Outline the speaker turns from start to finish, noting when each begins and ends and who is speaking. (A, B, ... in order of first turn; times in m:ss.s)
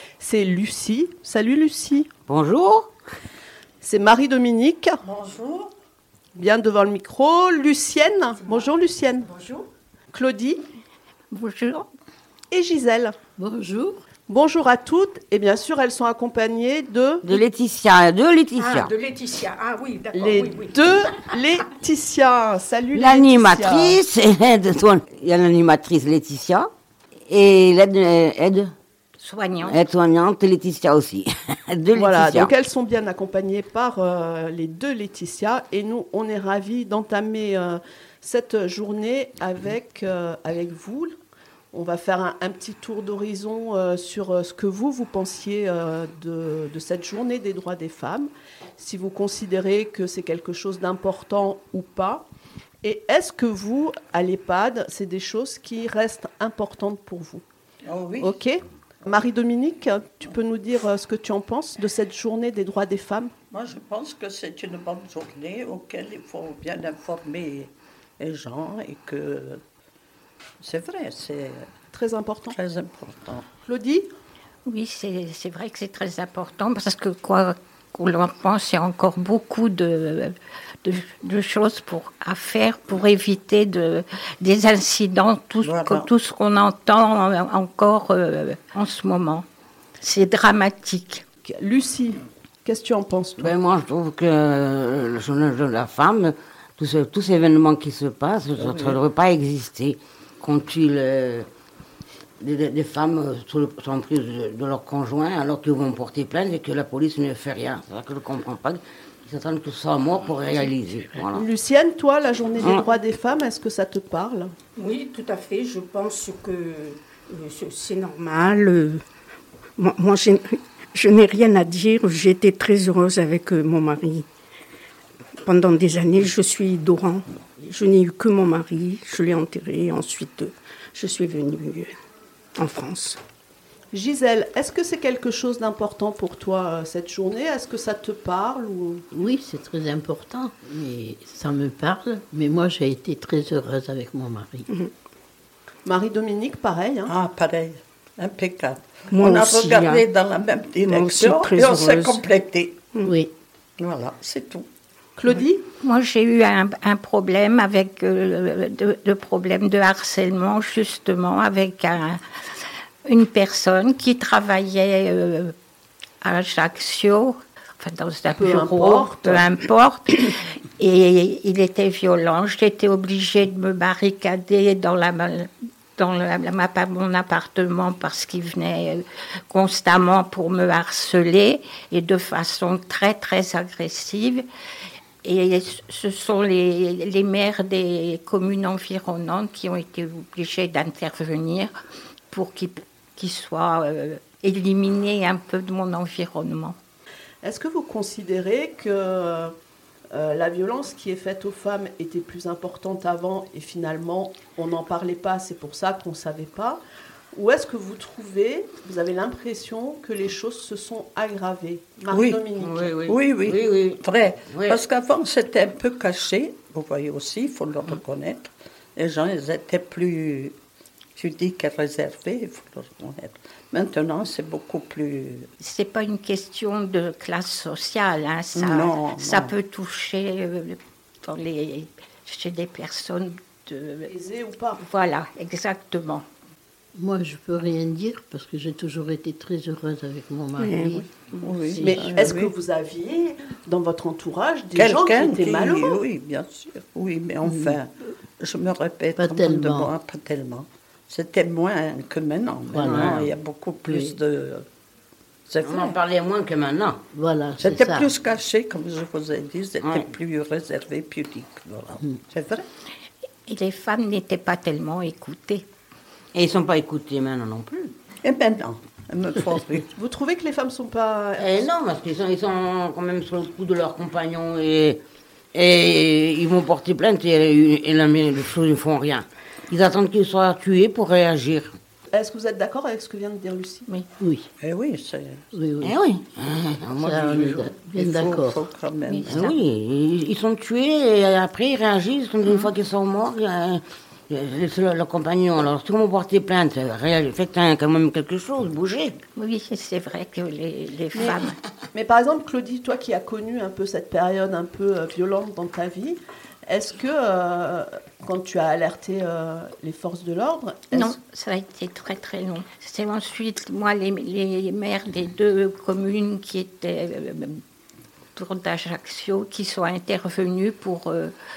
0:00.2-0:02.1 A
0:02.3-0:02.9 B
0:03.8-0:05.0 A
0:05.0-0:05.7 C
0:06.3-0:09.3 A
0:09.2-0:09.7 D
0:10.1-0:10.6 A
0:11.3-0:11.9 E
0:12.5-0:13.2 A
0:13.4-0:14.0 F
0:14.3-0:17.4 A
0:17.2-0:18.9 B
0:18.6-0:20.8 D
0:20.2-0:24.0 A
0:22.9-0:26.7 B
0:27.3-0:28.7 B
0:29.2-0:29.9 E
0:29.6-0:32.5 B
0:31.9-0:41.2 A
0:41.7-0:52.2 A
0:52.8-0:57.4 A
0:57.8-0:58.4 C
0:58.2-1:03.3 A
1:03.5-1:09.6 C
1:10.6-1:11.7 C
1:11.9-1:12.6 A
1:12.5-1:13.4 C
1:13.7-1:14.1 A
1:14.6-1:29.4 E
1:25.6-1:26.1 C
1:30.0-1:31.2 E
1:31.4-1:33.5 A
1:33.4-1:41.5 B
1:38.6-1:39.0 C
1:42.4-1:51.4 B
1:51.3-1:54.5 A
1:54.8-1:59.0 D
1:59.8-2:04.2 D
2:05.4-2:11.9 D
2:12.6-2:13.2 D
2:13.9-2:19.0 A
2:19.1-2:24.7 F
2:25.8-2:27.1 A
2:27.1-2:32.8 C
2:29.1-2:30.1 D
2:30.8-2:32.2 D
2:33.0-2:33.3 F
2:33.8-2:34.7 C
2:35.2-2:35.7 A
2:35.8-2:42.2 E
2:43.0-2:45.5 E
2:46.2-3:04.4 E
2:48.3-2:49.5 A
3:05.2-3:11.7 E
3:12.3-3:16.8 E
3:17.4-3:19.5 A
3:20.1-3:26.8 A
3:27.3-3:32.9 A
3:32.1-3:32.4 C
3:32.6-3:34.8 B
3:33.1-3:40.6 C
3:41.2-3:45.5 C
3:45.6-3:54.1 E
3:48.5-3:49.5 C
3:54.1-3:54.8 A
3:54.8-3:56.2 E
3:56.9-4:01.1 F
4:00.6-4:01.6 D
4:01.4-4:02.5 C
4:01.7-4:02.2 F
4:01.8-4:06.0 A
4:04.8-4:14.6 C
4:07.4-4:07.8 F
4:09.2-4:09.9 F
4:12.7-4:13.3 F
4:12.8-4:13.3 B
4:13.8-4:14.2 F
4:15.5-4:16.0 C
4:15.6-4:17.0 B
4:17.1-4:18.1 F
4:17.6-4:22.7 C
4:19.8-4:20.1 B
4:23.4-4:25.6 E
4:26.3-4:27.9 B
4:28.2-4:29.9 C
4:30.0-4:31.7 A
4:31.4-4:35.0 B
4:35.5-4:41.8 B
4:42.1-4:43.9 A
4:44.2-4:44.5 F
4:44.6-4:45.5 C
4:45.5-4:46.0 F
4:45.8-4:47.7 B
4:47.0-4:48.6 F
4:47.9-4:49.5 C
4:49.1-4:49.6 E
4:49.3-4:59.2 B
4:59.4-5:01.6 E
5:01.1-5:01.4 A
5:01.9-5:11.2 A
5:10.9-5:17.6 E
5:18.3-5:21.3 E